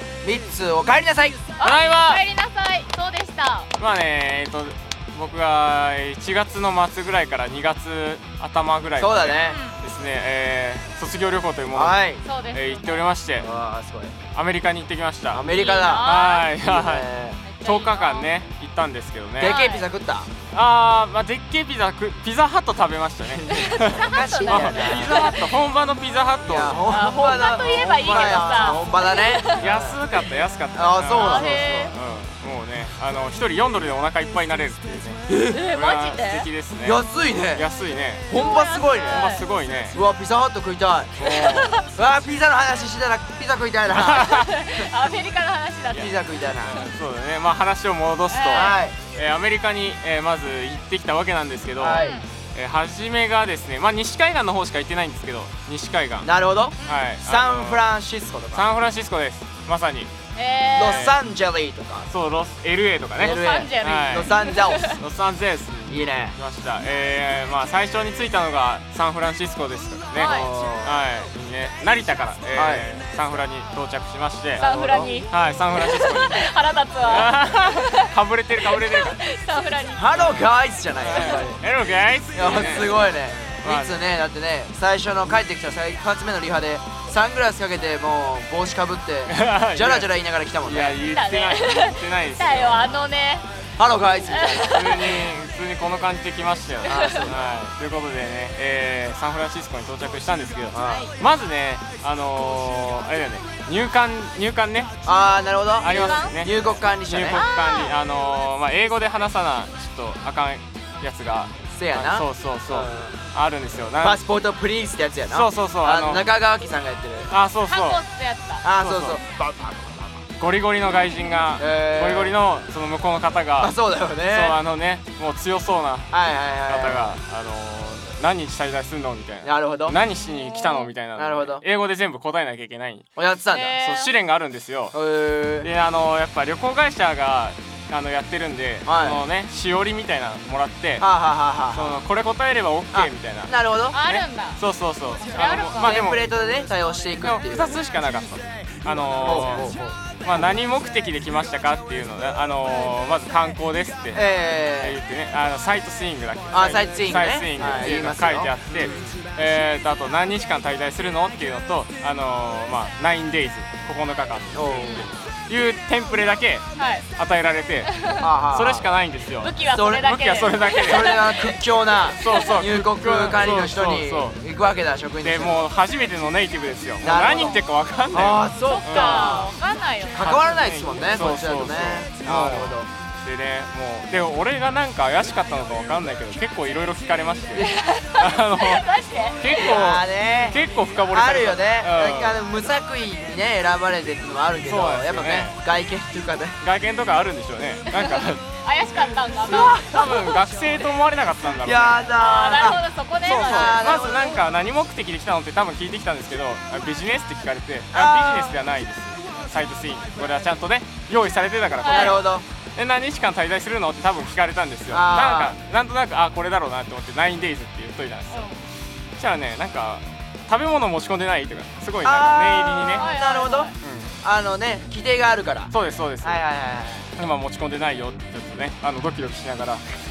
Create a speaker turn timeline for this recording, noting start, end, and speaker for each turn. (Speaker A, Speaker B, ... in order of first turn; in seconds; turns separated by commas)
Speaker A: 0.2-1.5, Speaker B: 1.6-3.7, Speaker C: 1.6-2.2, Speaker C: 3.8-12.0, Speaker A: 9.0-9.6, Speaker B: 9.5-9.8, Speaker A: 11.7-12.2, Speaker B: 12.2-13.0, Speaker C: 12.5-13.5, Speaker A: 13.4-14.2, Speaker C: 14.3-17.1, Speaker A: 15.3-16.1, Speaker B: 15.5-16.5, Speaker A: 16.6-17.4, Speaker B: 17.4-18.3, Speaker C: 17.6-19.6, Speaker A: 19.4-20.3, Speaker B: 19.4-19.8, Speaker C: 20.5-28.8, Speaker A: 23.4-25.3, Speaker B: 23.5-25.5, Speaker A: 26.4-30.0, Speaker B: 26.9-29.7, Speaker C: 29.5-37.0, Speaker A: 30.8-31.9, Speaker B: 31.1-31.9, Speaker A: 35.3-35.6, Speaker B: 35.5-36.5, Speaker A: 36.8-37.6, Speaker C: 37.5-38.3, Speaker A: 38.3-39.3, Speaker B: 38.3-39.5, Speaker C: 39.1-40.0, Speaker A: 39.9-41.1, Speaker C: 41.2-41.8, Speaker B: 41.2-41.9, Speaker A: 41.9-44.3, Speaker C: 44.0-44.4, Speaker B: 44.1-46.2, Speaker A: 45.9-46.8, Speaker C: 46.6-56.3, Speaker B: 48.3-48.8, Speaker A: 48.5-49.0, Speaker A: 51.8-52.2, Speaker B: 52.0-52.3, Speaker A: 56.2-58.7, Speaker B: 56.8-57.0, Speaker C: 56.8-57.8, Speaker C: 58.5-60.1, Speaker B: 60.4-61.1, Speaker A: 60.8-62.1, Speaker C: 60.9-61.2, Speaker C: 62.1-76.5, Speaker A: 63.2-65.0, Speaker B: 63.2-65.0, Speaker A: 65.9-66.4, Speaker B: 70.2-70.5, Speaker A: 70.2-71.0, Speaker A: 72.5-72.9, Speaker B: 74.6-80.2, Speaker A: 74.6-75.1, Speaker C: 77.0-79.2, Speaker A: 80.0-81.6, Speaker C: 80.1-84.0, Speaker B: 81.1-81.5, Speaker A: 82.3-91.0, Speaker C: 89.3-90.1, Speaker C: 90.6-93.0, Speaker B: 91.0-93.5, Speaker A: 93.8-94.8, Speaker B: 94.3-95.2, Speaker C: 94.7-105.0, Speaker B: 96.8-97.3, Speaker A: 96.9-97.4, Speaker A: 100.7-101.1, Speaker B: 100.9-101.1, Speaker A: 105.0-107.4, Speaker C: 105.8-114.2, Speaker B: 105.8-106.4, Speaker B: 107.3-108.0, Speaker A: 111.7-113.2, Speaker A: 114.0-117.3, Speaker C: 115.3-116.3, Speaker C: 117.3-118.0, Speaker B: 117.7-118.7, Speaker A: 118.6-120.2, Speaker C: 118.8-119.2, Speaker C: 120.4-133.1, Speaker A: 121.6-122.4, Speaker A: 123.6-124.6, Speaker A: 126.1-127.2, Speaker A: 129.4-130.0, Speaker B: 130.3-130.9, Speaker A: 131.2-131.6, Speaker A: 133.2-133.8, Speaker B: 133.5-134.1, Speaker C: 133.8-135.0, Speaker A: 134.9-135.7, Speaker C: 135.6-141.1, Speaker A: 138.8-139.2, Speaker A: 141.0-142.0, Speaker C: 141.7-146.2, Speaker A: 142.9-144.0, Speaker B: 143.9-144.6, Speaker B: 145.2-146.1, Speaker A: 145.8-147.8, Speaker C: 147.2-166.7, Speaker A: 149.2-150.5, Speaker A: 154.1-155.0, Speaker A: 156.5-159.2, Speaker A: 164.5-165.1, Speaker B: 164.8-165.1, Speaker B: 166.8-167.1, Speaker C: 167.2-168.0, Speaker B: 167.8-168.3, Speaker A: 168.2-168.9, Speaker C: 168.5-171.3, Speaker B: 169.4-172.7, Speaker A: 169.7-170.1, Speaker A: 170.8-175.6, Speaker C: 172.1-174.4, Speaker C: 175.2-179.4, Speaker A: 177.0-179.5, Speaker B: 178.6-180.3, Speaker A: 180.1-182.9, Speaker C: 180.2-192.4, Speaker A: 187.6-187.8, Speaker B: 187.6-189.8, Speaker A: 189.6-196.6, Speaker C: 194.7-195.6, Speaker C: 196.6-198.4, Speaker B: 197.9-200.9, Speaker C: 199.3-202.0, Speaker A: 199.4-199.9, Speaker A: 201.6-202.8, Speaker B: 202.2-203.8, Speaker C: 203.2-212.2, Speaker A: 203.4-204.4, Speaker A: 207.9-208.6, Speaker B: 211.8-212.2, Speaker A: 211.9-212.4, Speaker C: 212.8-218.5, Speaker A: 214.9-215.6, Speaker B: 218.3-218.6, Speaker C: 219.2-223.1, Speaker A: 222.0-227.1, Speaker B: 223.0-223.7, Speaker C: 223.8-224.1, Speaker C: 225.7-226.4, Speaker C: 227.2-230.0